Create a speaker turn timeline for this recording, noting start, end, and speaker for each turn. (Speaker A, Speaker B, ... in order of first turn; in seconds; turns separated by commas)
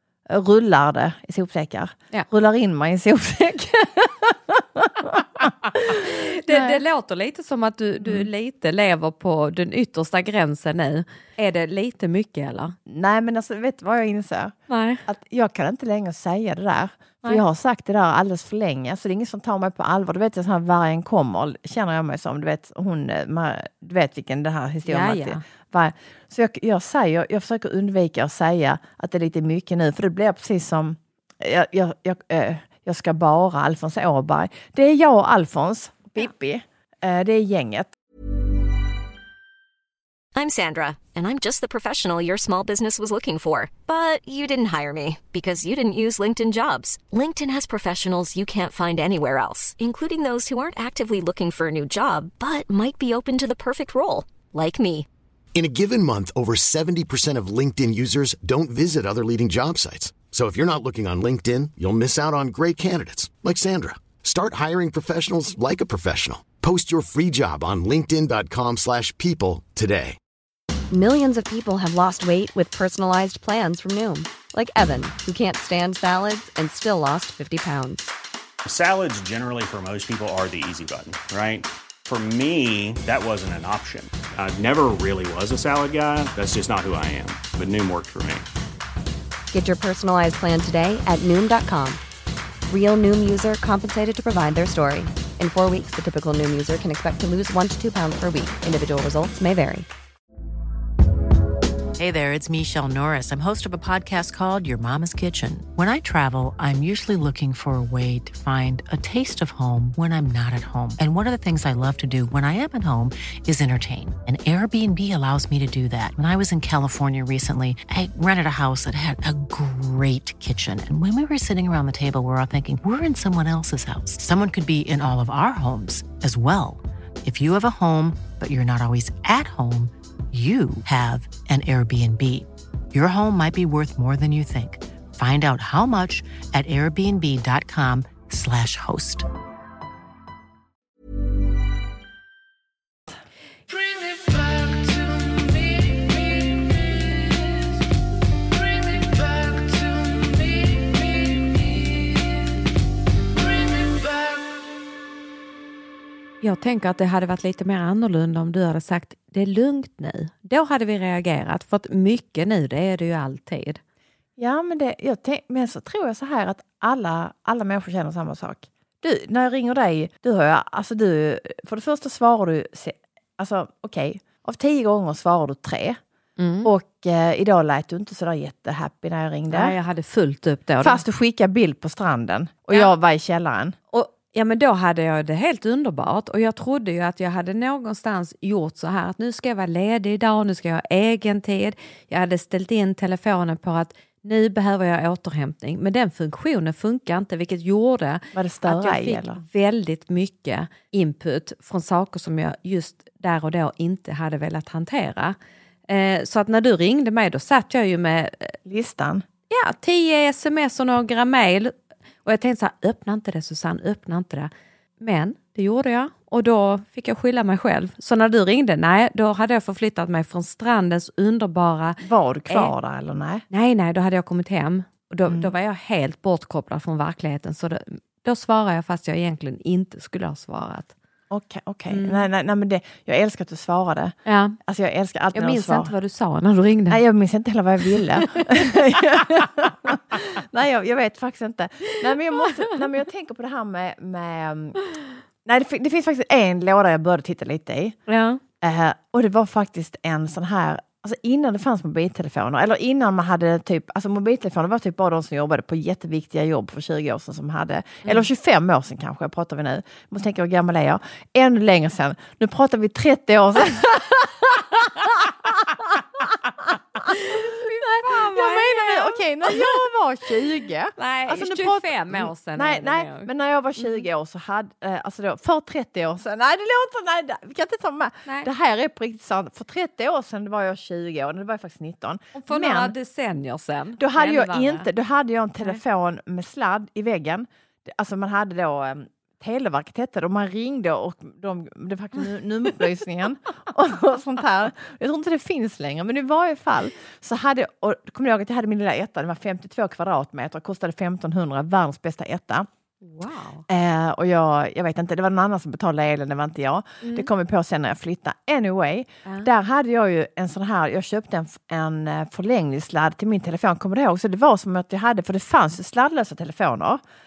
Speaker A: 0.3-6.8, Speaker B: 5.7-12.8, Speaker A: 8.0-8.3, Speaker A: 12.9-37.9, Speaker B: 14.7-15.1, Speaker B: 24.9-25.4, Speaker C: 40.4-55.1, Speaker D: 55.5-70.2, Speaker E: 70.9-78.1, Speaker F: 78.7-88.5, Speaker E: 89.5-92.0, Speaker E: 92.7-99.9, Speaker G: 102.0-139.3, Speaker B: 156.4-163.8, Speaker A: 164.4-176.0, Speaker B: 176.4-176.7, Speaker A: 176.6-179.8, Speaker B: 179.5-181.0, Speaker A: 180.8-183.8, Speaker B: 183.9-205.4, Speaker A: 198.3-199.4, Speaker B: 205.9-208.6, Speaker A: 208.7-209.2, Speaker B: 209.5-222.7, Speaker A: 222.0-223.4, Speaker B: 223.5-230.9, Speaker A: 231.3-235.9, Speaker B: 231.9-232.3, Speaker B: 234.2-234.6, Speaker B: 235.3-237.0, Speaker A: 236.9-244.8, Speaker B: 238.0-238.6, Speaker A: 245.4-248.0, Speaker B: 248.1-248.4, Speaker A: 248.6-282.9, Speaker B: 267.1-269.8, Speaker B: 271.0-274.1, Speaker B: 282.4-284.9, Speaker A: 284.0-302.7, Speaker B: 303.0-303.7, Speaker A: 303.7-317.0, Speaker B: 307.0-307.3